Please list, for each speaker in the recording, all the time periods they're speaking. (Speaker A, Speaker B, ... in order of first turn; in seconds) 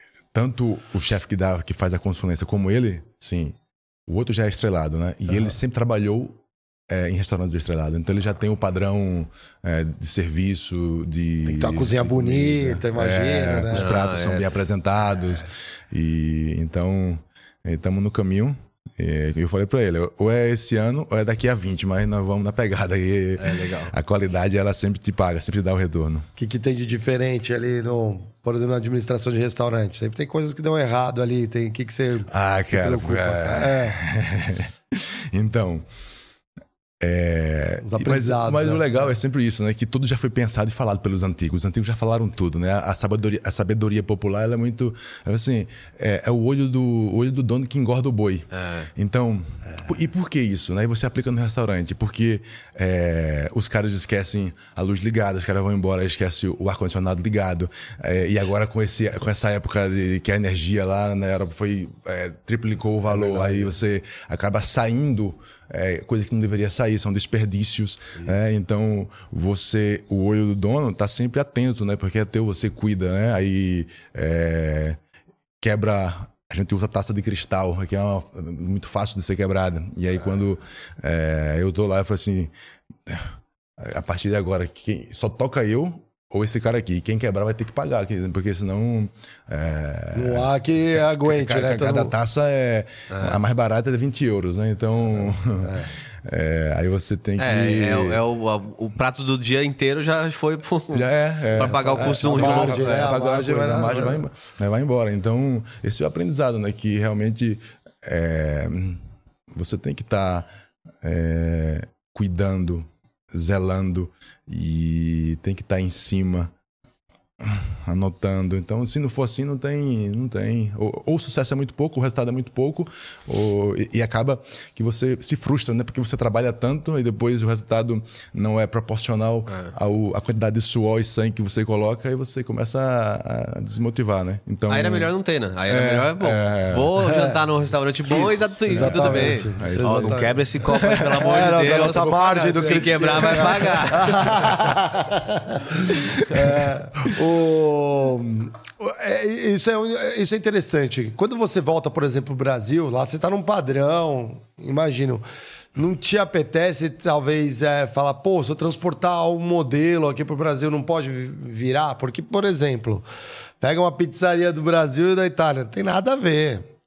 Speaker A: 0.3-26.3, 32.3-35.9, 37.0-75.0, 75.6-82.5, 83.0-98.2, 100.9-110.5, 111.0-116.5, 117.4-135.1, 135.7-137.0, 138.1-144.7
Speaker B: 11.4-13.9, 26.4-34.0, 37.8-39.1, 63.1-63.8, 90.1-92.1, 95.6-95.9, 101.8-104.2, 137.1-137.4, 138.7-140.4, 141.2-155.2, 155.8-163.1, 163.6-166.7
Speaker C: 13.7-14.5, 23.4-23.9, 48.5-48.9, 93.1-93.4, 97.4-103.1, 134.7-144.5